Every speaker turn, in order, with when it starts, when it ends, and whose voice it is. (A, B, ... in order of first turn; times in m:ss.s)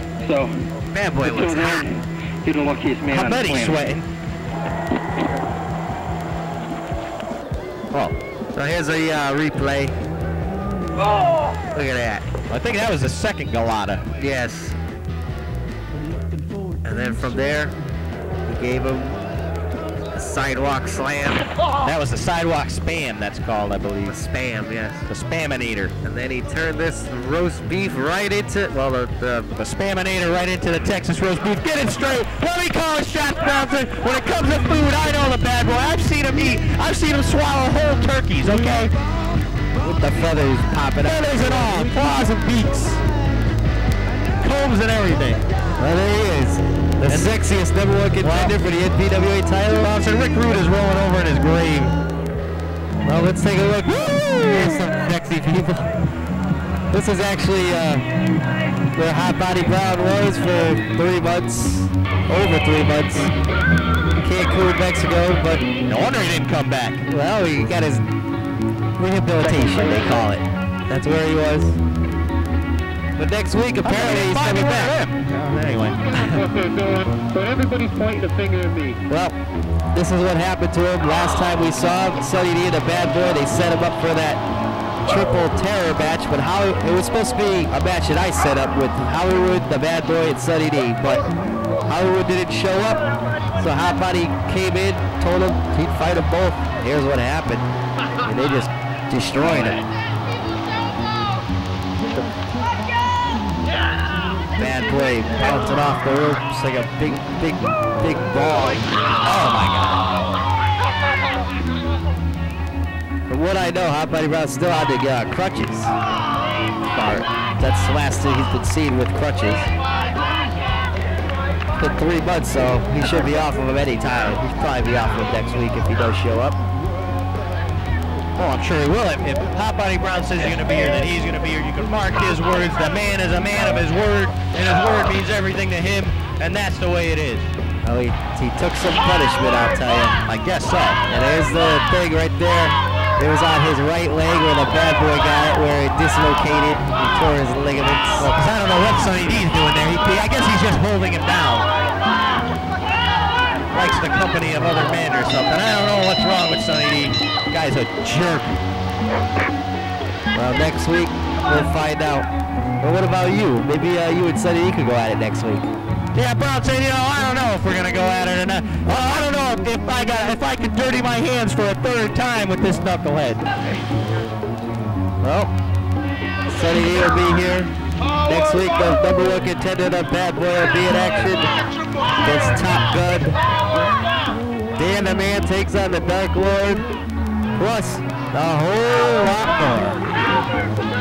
0:00.2-0:00.7 A
0:00.9-0:01.9 B
0:01.2-0:03.9 A
0:03.1-0:04.1 C
0:07.9-0:08.2 C
0:08.5-0:10.0 B
0:11.7-0:12.3 B
0:12.5-0:14.1 C
0:14.2-0:14.8 B
0:16.8-0:17.8 B
0:18.4-0:19.1 B
0:20.1-0:21.5 B
0:21.8-0:24.2 C
0:24.1-0:25.1 B
0:25.1-0:25.9 C
0:26.0-0:29.5 B
0:29.6-0:38.9 C
0:39.8-0:42.0 B
0:41.0-0:43.0 C
0:44.4-0:45.4 C
0:45.8-0:49.9 B
0:47.1-0:47.4 C
0:48.2-0:48.6 C
0:49.7-0:52.0 C
0:53.0-0:55.9 B
0:56.9-0:58.0 B
0:59.0-1:03.3 B
1:04.2-1:05.7 B
1:05.9-1:07.0 C
1:07.1-1:08.0 B
1:09.0-1:11.8 B
1:09.5-1:10.3 C
1:13.2-1:15.0 B
1:13.8-1:16.4 C
1:16.1-1:19.0 A
1:19.1-1:19.4 B
1:19.9-1:24.4 B
1:25.1-1:31.3 B
1:31.9-1:37.7 B
1:38.2-1:39.8 B
1:44.6-1:48.9 B
1:49.2-1:50.1 C
1:53.3-1:55.9 B
1:56.9-1:59.7 B
1:57.0-1:57.2 C
2:01.8-2:06.6 B
2:03.0-2:03.4 C
2:08.4-2:17.5 C
2:17.8-2:20.2 B
2:20.3-2:21.0 C
2:21.1-2:28.4 B
2:28.2-2:31.7 C
2:33.7-2:38.6 C
2:40.3-2:42.3 B
2:42.8-2:45.7 B
2:46.1-2:53.4 C
2:55.2-2:55.5 B
2:56.5-2:57.7 B
2:58.3-3:01.5 B
3:02.2-3:03.4 B
3:04.8-3:06.8 B
3:07.6-3:10.0 B